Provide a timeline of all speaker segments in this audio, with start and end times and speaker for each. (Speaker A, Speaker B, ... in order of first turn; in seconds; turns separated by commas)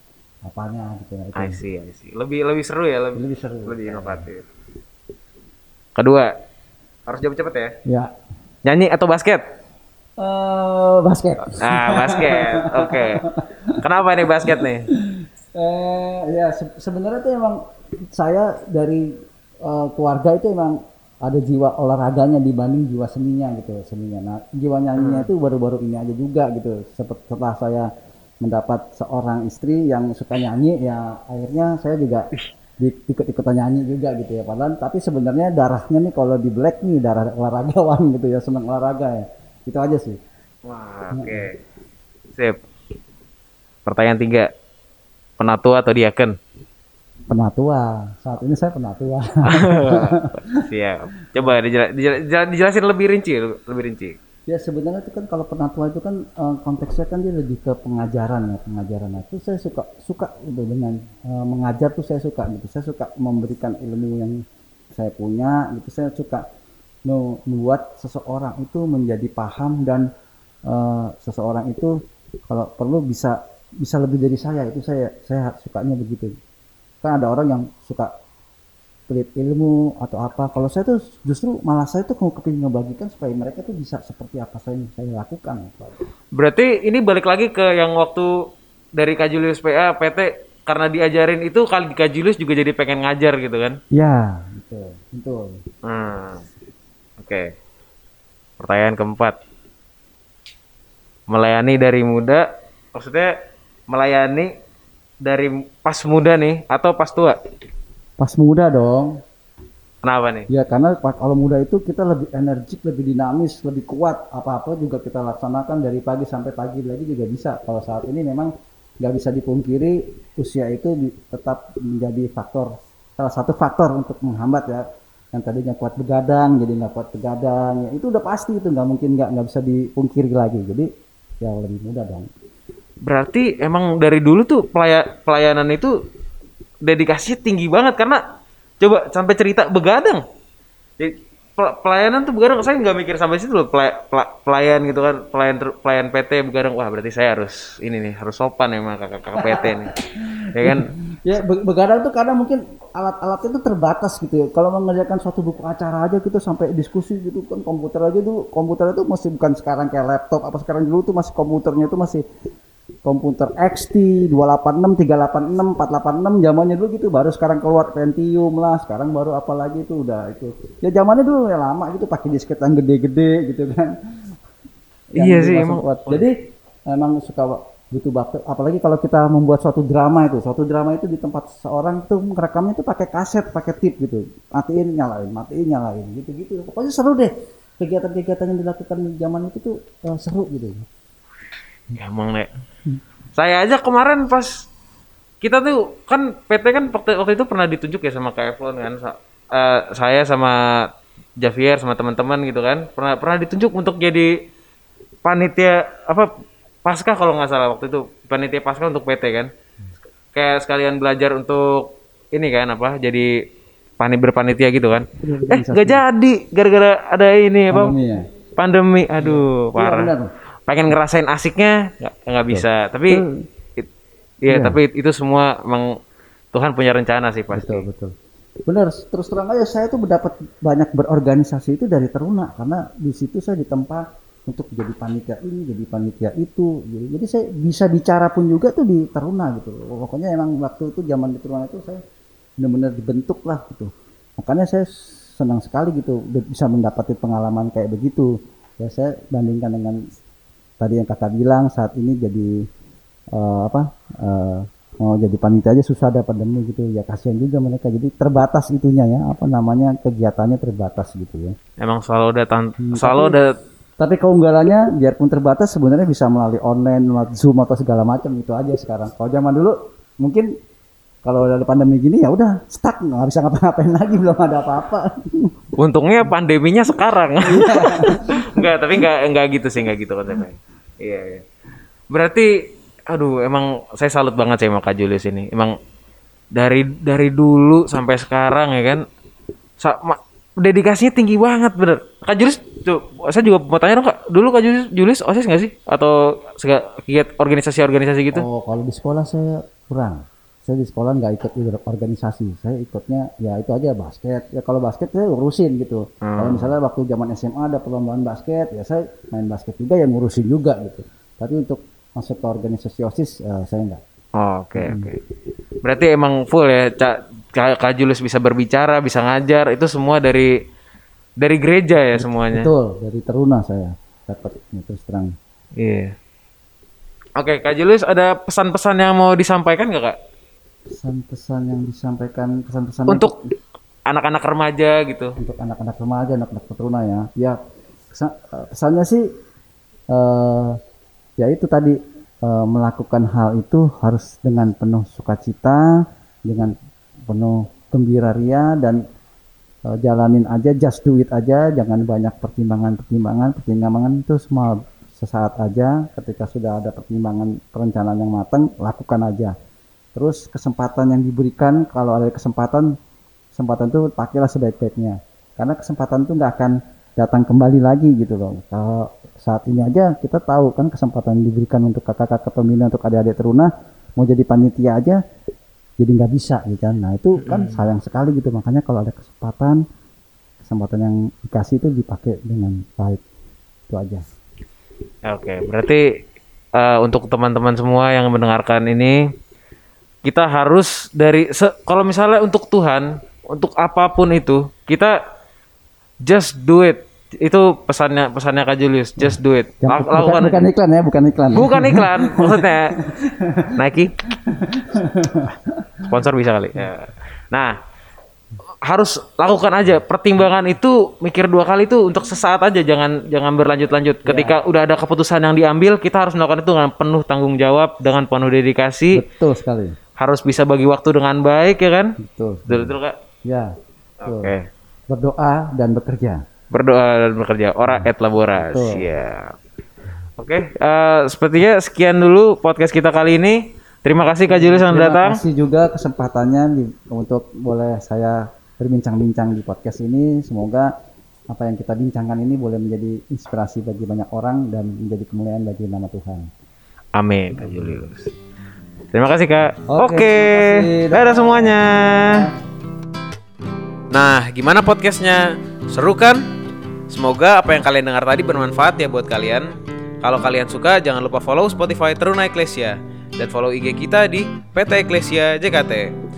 Speaker A: 0.4-1.6, Speaker B: 1.4-4.5, Speaker A: 3.1-4.3, Speaker B: 6.0-6.3, Speaker B: 7.1-7.7, Speaker A: 7.8-8.1, Speaker B: 8.6-9.4, Speaker A: 10.2-13.8, Speaker B: 11.5-13.2, Speaker B: 13.8-14.9, Speaker A: 14.3-17.6, Speaker A: 18.1-19.1, Speaker A: 19.6-27.9, Speaker B: 25.0-25.3, Speaker A: 28.4-32.3, Speaker A: 32.8-40.2, Speaker B: 40.6-41.5, Speaker A: 41.1-41.5, Speaker B: 43.9-44.5, Speaker B: 45.4-46.3, Speaker A: 47.3-50.6, Speaker B: 49.5-54.2, Speaker A: 54.5-64.4, Speaker A: 64.9-66.4, Speaker A: 67.0-70.1, Speaker A: 70.7-71.9, Speaker A: 72.5-76.3, Speaker A: 77.0-78.1, Speaker A: 79.1-86.0, Speaker B: 86.3-88.3, Speaker B: 89.0-93.8, Speaker A: 93.9-95.6, Speaker B: 95.8-96.5, Speaker B: 97.2-97.5, Speaker B: 98.6-99.4, Speaker B: 101.3-103.3, Speaker B: 103.9-104.5, Speaker B: 105.2-107.4, Speaker A: 108.2-109.2, Speaker B: 110.0-110.5, Speaker A: 110.5-118.5, Speaker A: 119.0-130.9, Speaker A: 131.4-132.3, Speaker B: 133.0-135.9, Speaker B: 136.8-138.2, Speaker B: 138.8-140.2, Speaker B: 141.0-149.9, Speaker A: 149.4-162.2, Speaker B: 150.5-150.9, Speaker A: 163.0-173.9, Speaker A: 175.1-176.3, Speaker B: 175.2-176.2, Speaker A: 176.9-190.9, Speaker B: 191.9-192.5, Speaker B: 193.3-194.5, Speaker B: 195.4-200.9, Speaker B: 201.4-204.3, Speaker B: 205.2-206.3, Speaker B: 206.8-209.5, Speaker B: 210.3-213.3, Speaker B: 214.0-218.0, Speaker A: 215.2-216.0, Speaker A: 217.7-218.3, Speaker B: 218.6-220.1, Speaker A: 219.2-220.3, Speaker B: 220.7-223.2, Speaker A: 222.5-223.4, Speaker B: 224.4-225.9, Speaker A: 224.5-224.8, Speaker B: 226.5-227.8, Speaker A: 227.5-228.1, Speaker A: 228.7-242.0, Speaker A: 242.6-250.0, Speaker A: 250.8-252.5, Speaker A: 253.3-261.5, Speaker B: 261.8-263.5, Speaker A: 262.8-263.4, Speaker A: 264.0-270.5, Speaker A: 271.2-275.5, Speaker B: 275.8-281.4, Speaker A: 277.4-278.7, Speaker B: 282.1-282.5, Speaker B: 283.1-285.8, Speaker B: 286.5-289.0, Speaker B: 289.8-298.4, Speaker A: 298.3-314.0, Speaker B: 306.2-306.7, Speaker B: 314.4-315.2, Speaker A: 314.8-315.1, Speaker B: 315.8-320.5, Speaker B: 321.4-322.7, Speaker A: 322.1-325.3, Speaker B: 325.8-326.1, Speaker B: 327.4-330.1, Speaker A: 330.9-333.4, Speaker B: 333.1-333.3, Speaker B: 334.1-335.4, Speaker A: 335.4-337.6, Speaker A: 338.1-339.2, Speaker A: 340.1-340.8, Speaker A: 341.4-345.9, Speaker A: 346.5-346.7, Speaker A: 347.3-349.0, Speaker A: 349.9-359.5, Speaker A: 360.1-362.9, Speaker A: 363.5-375.2, Speaker A: 376.0-379.8, Speaker B: 377.4-377.9, Speaker A: 380.6-383.2, Speaker A: 383.9-384.2, Speaker B: 385.3-386.0, Speaker B: 386.7-389.2, Speaker B: 390.2-395.2, Speaker B: 396.2-400.7, Speaker A: 399.2-403.7, Speaker B: 401.5-402.9, Speaker B: 403.7-404.1, Speaker A: 404.3-406.0, Speaker B: 406.0-407.8, Speaker B: 408.8-419.2, Speaker A: 414.2-414.6, Speaker A: 419.1-419.9, Speaker B: 420.2-422.1, Speaker A: 422.2-423.7, Speaker B: 422.7-423.2, Speaker B: 424.2-424.7, Speaker A: 424.2-424.5, Speaker A: 425.1-426.4, Speaker B: 426.7-429.6, Speaker A: 428.6-429.0, Speaker B: 430.4-435.4, Speaker A: 434.5-440.9, Speaker A: 441.5-446.5, Speaker B: 447.1-448.3, Speaker A: 447.6-447.9, Speaker B: 449.1-452.4, Speaker A: 449.9-452.5, Speaker B: 454.1-456.4, Speaker B: 457.1-459.7, Speaker B: 460.2-466.1